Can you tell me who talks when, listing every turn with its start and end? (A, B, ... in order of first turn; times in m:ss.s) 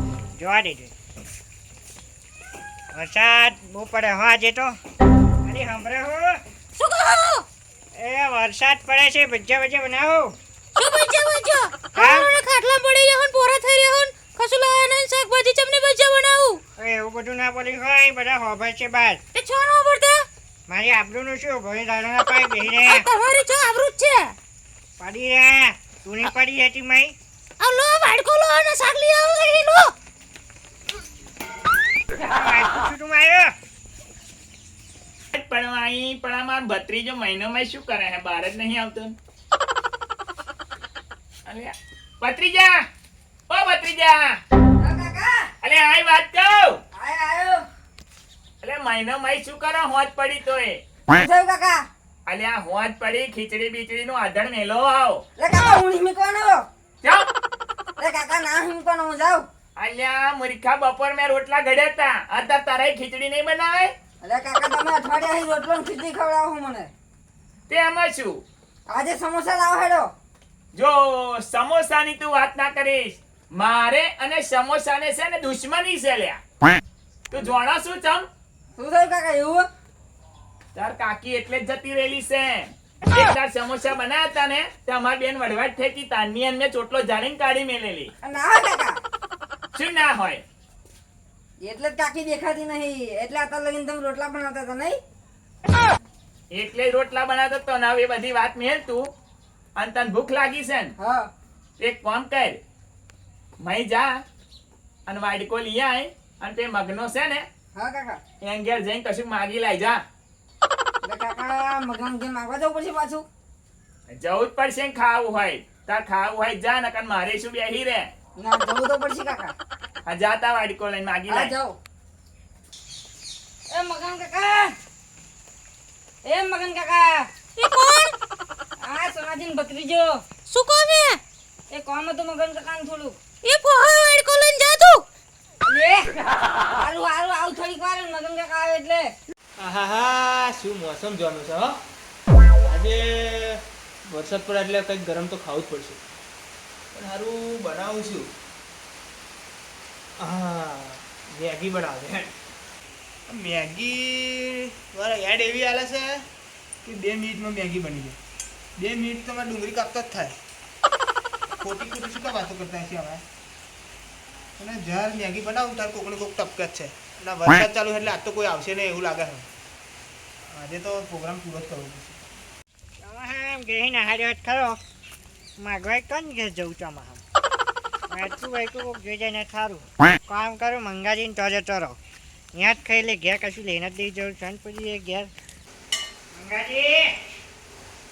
0:00.4-0:00.9 A
0:02.9-0:04.8 A
0:05.4-0:06.4 A
0:06.8-0:07.5 B
0:08.0-0:10.4 A
0:10.8-0:16.6 B
0:12.0-0:12.3 A
0:16.8-0:19.2 A
0:19.4-0:20.3 B
0:20.7-0:23.1 A
0:22.7-0:24.4 B
0:25.0-0:27.2 A
0:27.6-0:29.9 B
0:32.2-0:33.5 A
0:35.3-0:39.2 C
0:41.5-0:42.9 C
0:43.5-0:44.4 C
0:44.8-0:45.5 D
0:45.6-0:46.8 C
0:46.9-0:47.7 D
0:48.6-0:50.8 C
0:51.1-0:51.9 D
0:52.3-0:55.2 C
0:55.4-0:56.7 D
0:57.0-0:57.3 C
0:58.0-0:59.5 D
0:59.8-1:03.9 C
1:04.2-1:06.9 D
1:07.7-1:08.4 C
1:08.9-1:10.1 D
1:10.7-1:16.4 C
1:17.3-1:18.3 C
1:18.8-1:19.7 D
1:20.8-1:28.1 C
1:28.2-1:29.0 D
1:29.7-1:30.4 C
1:31.6-1:35.0 D
1:36.5-1:39.1 C
1:39.8-1:40.9 C
1:41.0-1:41.3 D
1:41.8-1:42.6 C
1:43.6-1:44.2 C
1:45.1-1:47.5 C
1:47.8-1:48.2 D
1:48.4-1:50.0 C
1:51.0-1:53.3 D
1:54.1-1:58.1 C
1:58.4-1:59.5 D
2:00.0-2:01.5 C
2:01.3-2:01.8 D
2:03.7-2:04.7 D
2:06.2-2:07.3 D
2:07.6-2:08.2 B
2:08.8-2:10.2 D
2:10.5-2:11.2 B
2:11.7-2:13.2 D
2:13.4-2:15.1 B
2:15.6-2:19.1 D
2:19.6-2:21.8 E
2:22.6-2:26.0 E
2:26.9-2:28.3 E
2:30.2-2:32.3 E
2:33.3-2:36.2 E
2:36.8-2:38.2 E
2:38.8-2:40.4 E
2:41.6-2:43.2 E
2:44.6-2:49.5 E
2:50.5-2:52.2 E
2:53.0-2:54.8 A
2:55.6-2:57.2 A
2:58.1-3:02.0 A
3:02.5-3:05.3 A
3:06.3-3:07.2 A